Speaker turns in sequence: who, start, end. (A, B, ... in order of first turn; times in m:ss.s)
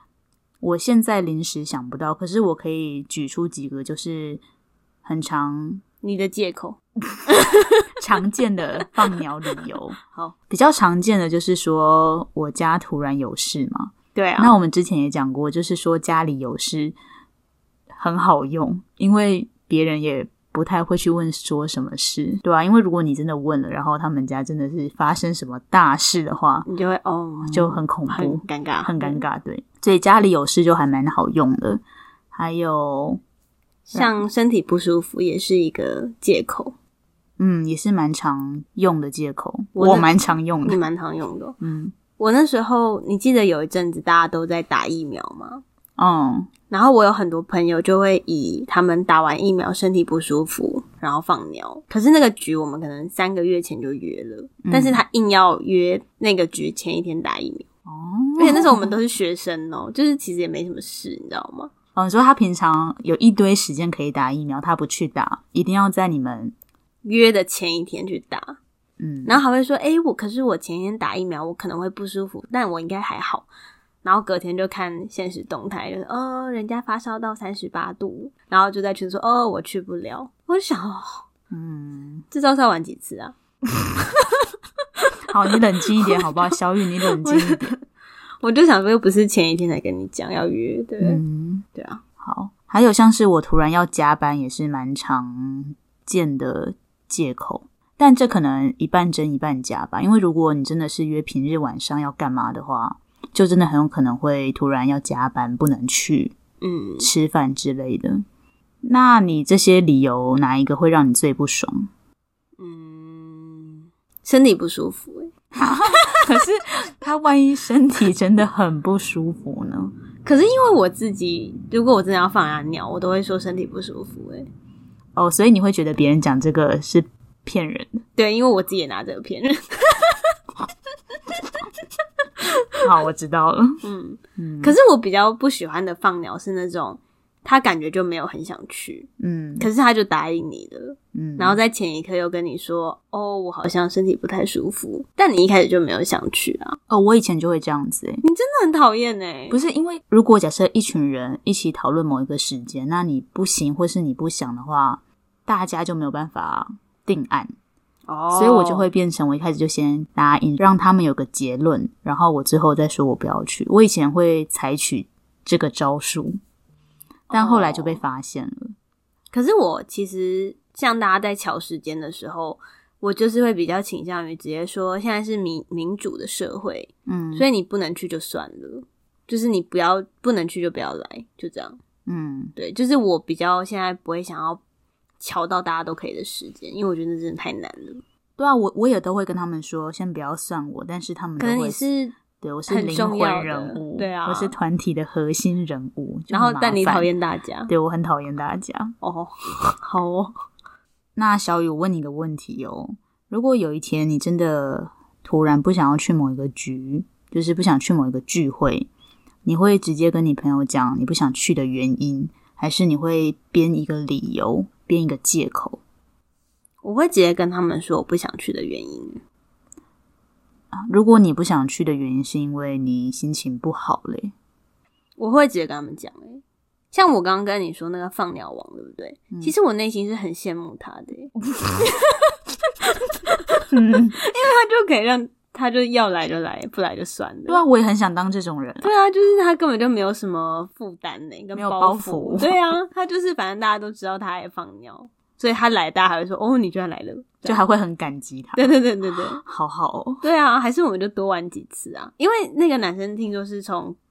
0:00.6-0:04.4 A
0:05.0-0:05.8 A
0:06.0-0:06.8 B
0:07.3-0:07.8 B
0:08.0-0:17.0 A
0:14.1-0:14.6 B
0:17.9-0:26.7 A
0:26.6-0:29.2 B
0:27.5-0:31.8 A
0:32.3-0:33.2 A
0:33.9-0:36.7 B
0:33.9-0:34.2 A
0:37.4-0:40.8 A
0:39.7-0:40.1 B
0:40.6-0:41.6 B
0:41.6-0:41.9 A
0:42.2-0:45.6 B
0:46.0-0:46.5 A
0:46.7-0:57.6 B
0:54.6-0:55.0 A
0:57.9-0:58.9 A
0:58.4-1:01.7 B
1:01.9-1:06.5 A
1:07.0-1:08.6 B
1:09.0-1:09.4 A
1:09.2-1:13.5 B
1:14.0-1:21.3 B
1:21.5-1:22.2 A
1:22.3-1:23.3 B
1:25.3-1:27.7 A
1:27.1-1:27.8 B
1:28.4-1:31.2 B
1:31.0-1:31.6 A
1:31.7-1:32.0 B
1:32.2-1:46.3 A
1:46.6-1:47.1 B
1:47.0-1:48.2 A
1:48.8-1:51.9 A
1:52.6-1:55.3 B
1:55.6-1:59.9 A
2:00.2-2:04.5 B
2:05.2-2:08.0 A
2:08.2-2:10.3 B
2:12.8-2:13.8 A
2:13.8-2:26.8 B
2:14.4-2:14.8 A
2:19.2-2:19.7 A
2:21.1-2:21.6 A
2:26.9-2:28.2 A
2:28.2-2:29.6 B
2:29.5-2:37.5 A
2:38.1-2:38.9 B
2:38.3-2:46.4 A
2:47.3-2:48.0 B
2:47.3-2:48.7 A
2:49.3-3:01.8 B
2:57.1-2:57.5 A
3:02.0-3:02.5 A
3:02.6-3:04.6 B
3:05.2-3:08.0 B
3:08.4-3:11.8 A
3:11.4-3:12.1 B
3:12.4-3:17.1 A
3:12.7-3:14.5 B
3:16.3-3:17.7 B
3:17.7-3:18.9 A
3:19.0-3:20.3 B
3:21.2-3:28.9 A
3:29.4-3:35.8 A
3:36.8-3:39.2 B
3:40.7-3:44.3 A
3:45.2-3:57.6 B
3:53.7-3:54.1 A
3:57.5-3:58.9 A
3:58.8-4:07.6 B
4:01.5-4:02.6 A
4:07.4-4:08.7 A
4:08.6-4:09.4 B
4:09.4-4:10.2 A
4:10.2-4:14.0 B